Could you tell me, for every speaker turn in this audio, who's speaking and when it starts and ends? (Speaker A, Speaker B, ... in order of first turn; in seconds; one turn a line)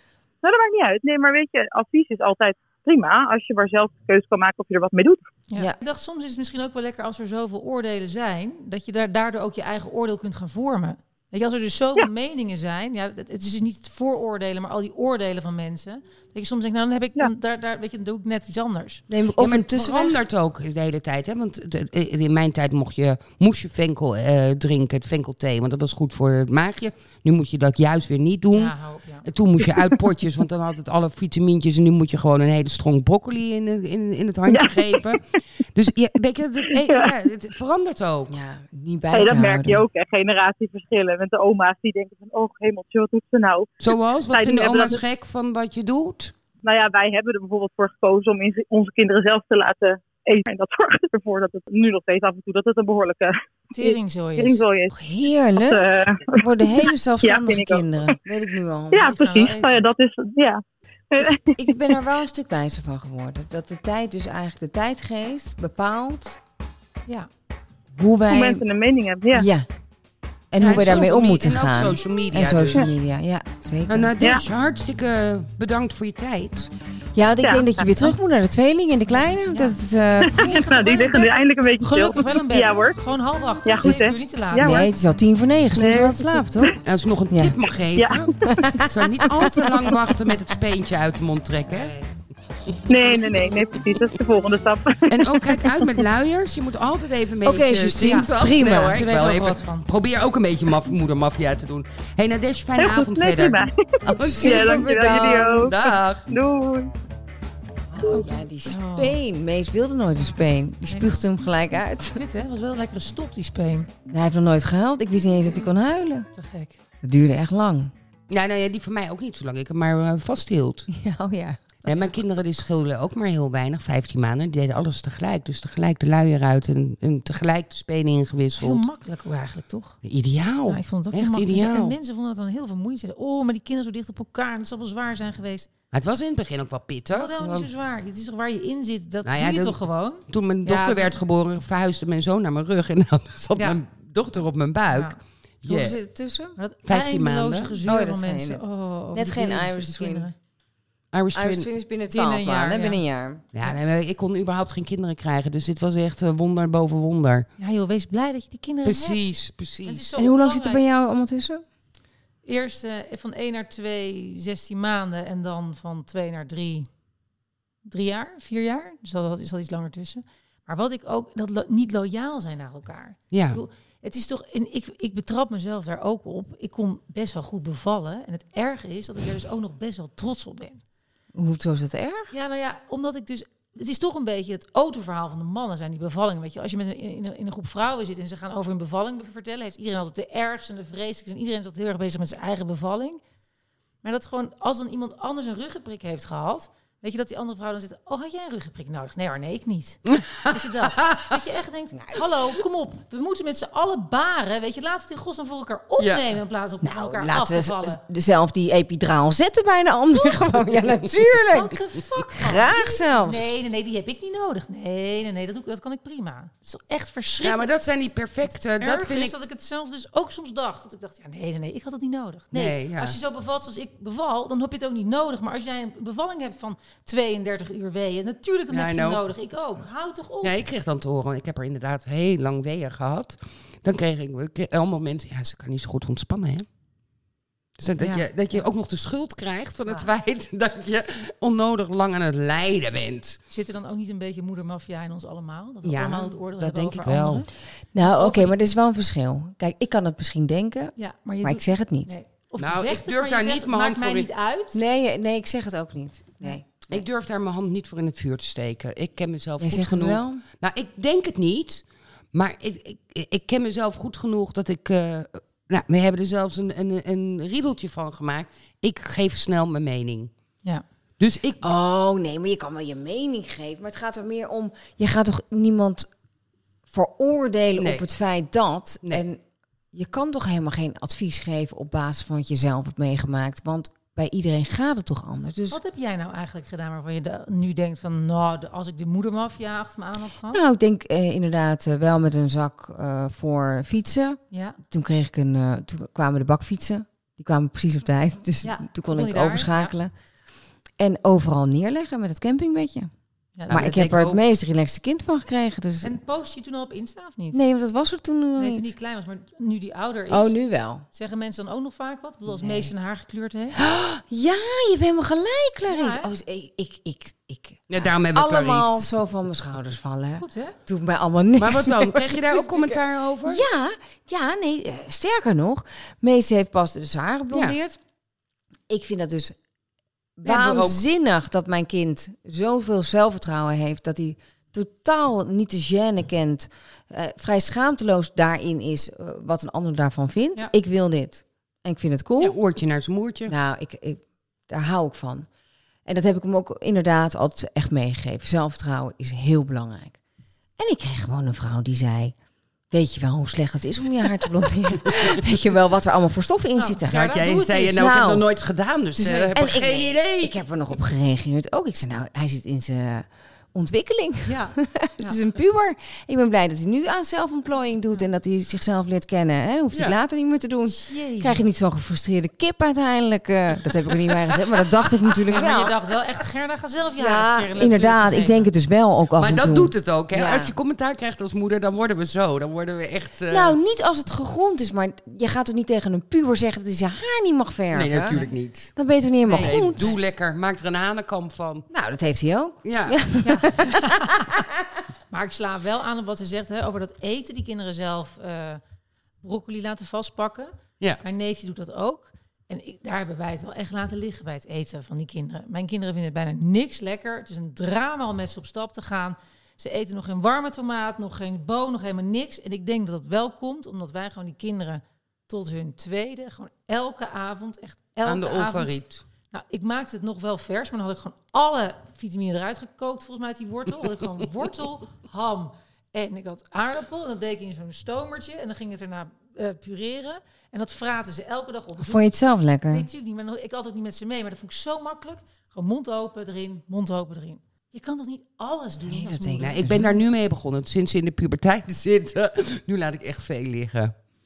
Speaker A: 0.4-5.2
Speaker B: 5.5-19.0
Speaker C: 19.1-20.2
Speaker D: 19.4-28.7
Speaker B: 28.5-29.3
Speaker D: 29.2-35.2
Speaker A: 34.5-34.9
Speaker D: 35.7-38.4
Speaker A: 36.8-37.1
Speaker C: 38.3-39.8
Speaker A: 39.1-43.8
Speaker D: 43.8-46.3
Speaker A: 44.3-45.0
Speaker A: 46.6-54.9
Speaker B: 53.7-54.6
Speaker C: 54.9-55.8
Speaker A: 55.6-58.1
Speaker C: 56.4-59.2
Speaker A: 58.9-61.8
Speaker B: 59.0-59.8
Speaker C: 61.5-66.4
Speaker C: 67.9-68.6
Speaker A: 68.3-69.5
Speaker C: 69.3-69.7
Speaker C: 70.5-74.1
Speaker D: 70.6-72.9
Speaker D: 73.9-76.7
Speaker C: 77.2-80.9
Speaker A: 77.4-77.9
Speaker B: 79.3-84.9
Speaker A: 80.3-83.0
Speaker A: 83.7-84.9
Speaker C: 84.6-86.7
Speaker A: 85.8-86.8
Speaker D: 86.8-88.3
Speaker C: 87.3-87.6
Speaker A: 88.0-88.3
Speaker C: 88.5-89.9
Speaker D: 88.9-91.9
Speaker B: 91.7-92.2
Speaker A: 92.9-95.9
Speaker D: 93.0-93.5
Speaker D: 95.1-104.9
Speaker C: 97.4-99.1
Speaker B: 98.0-99.9
Speaker A: 102.8-106.9
Speaker C: 104.1-105.9
Speaker D: 105.6-106.2
Speaker B: 107.9-109.2
Speaker C: 108.0-112.2
Speaker B: 110.9-111.2
Speaker B: 112.1-113.9
Speaker C: 114.1-116.3
Speaker B: 116.3-116.8
Speaker C: 117.0-117.9
Speaker D: 118.3-120.9
Speaker C: 120.9-121.6
Speaker D: 121.8-128.9
Speaker B: 121.9-122.1
Speaker B: 128.6-130.0
Speaker D: 130.0-132.0
Speaker B: 130.7-135.7
Speaker D: 135.9-137.7
Speaker B: 137.1-141.2
Speaker D: 139.2-139.8
Speaker D: 140.3-146.0
Speaker B: 143.6-143.8
Speaker B: 144.9-145.2
Speaker C: 145.7-146.6
Speaker B: 146.6-150.3
Speaker D: 146.9-147.8
Speaker C: 147.8-148.6
Speaker C: 149.1-150.3
Speaker D: 151.1-151.7
Speaker C: 151.3-153.4
Speaker B: 152.1-153.0
Speaker D: 153.5-157.5
Speaker B: 157.6-159.3
Speaker D: 158.8-160.1
Speaker B: 159.9-160.8
Speaker C: 160.2-161.6
Speaker B: 162.4-166.9
Speaker B: 167.9-180.8
Speaker D: 173.3-173.6
Speaker C: 181.3-182.3
Speaker B: 182.3-193.2
Speaker B: 194.0-208.0
Speaker D: 200.1-201.3
Speaker C: 201.9-202.4
Speaker D: 206.0-206.2
Speaker C: 206.8-213.5
Speaker B: 211.5-217.7
Speaker D: 217.4-219.3
Speaker B: 218.5-230.6
Speaker D: 222.5-223.2
Speaker D: 228.7-229.2
Speaker D: 230.4-236.7
Speaker D: 237.8-243.4
Speaker B: 238.0-238.6
Speaker B: 243.5-248.6
Speaker D: 245.8-247.4
Speaker C: 247.9-252.2
Speaker B: 251.0-254.8
Speaker D: 252.6-254.3
Speaker C: 254.7-257.0
Speaker D: 256.9-270.3
Speaker C: 259.6-260.4
Speaker D: 271.2-271.6
Speaker C: 271.6-276.1
Speaker C: 276.9-279.4
Speaker D: 277.8-278.1
Speaker C: 279.9-285.8
Speaker B: 285.7-290.6
Speaker C: 290.5-300.1
Speaker B: 294.5-294.8
Speaker B: 298.6-299.9
Speaker C: 301.0-303.1
Speaker B: 303.6-303.9
Speaker D: 303.7-304.4
Speaker C: 303.7-306.1
Speaker B: 306.0-307.6
Speaker C: 307.5-308.9
Speaker B: 308.6-310.6
Speaker C: 310.3-311.1
Speaker B: 311.1-313.8
Speaker C: 312.5-312.9
Speaker C: 313.8-328.0
Speaker B: 315.9-316.3
Speaker D: 317.9-319.1
Speaker B: 320.4-320.8
Speaker D: 321.6-323.6
Speaker C: 328.9-329.6
Speaker C: 330.4-342.6
Speaker D: 330.4-331.0
Speaker D: 342.4-343.5
Speaker C: 343.5-345.5
Speaker C: 346.1-350.2
Speaker C: 350.8-352.4
Speaker C: 352.9-357.3
Speaker B: 356.8-358.1
Speaker D: 357.1-360.6
Speaker C: 357.9-358.5
Speaker C: 359.2-375.9
Speaker B: 359.2-359.5
Speaker B: 364.5-365.4
Speaker B: 370.9-371.6
Speaker D: 374.3-374.9
Speaker B: 375.5-378.7
Speaker C: 377.2-380.8
Speaker D: 379.4-383.8
Speaker C: 383.5-390.1
Speaker D: 387.9-388.9
Speaker B: 389.4-390.2
Speaker D: 389.6-391.9
Speaker C: 391.9-395.0
Speaker D: 392.9-393.2
Speaker B: 393.4-394.4
Speaker B: 395.3-398.8
Speaker B: 399.4-418.9
Speaker D: 418.3-419.2
Speaker B: 419.5-432.3
Speaker C: 432.0-433.1
Speaker B: 432.9-440.2
Speaker C: 439.1-440.0
Speaker D: 439.6-444.1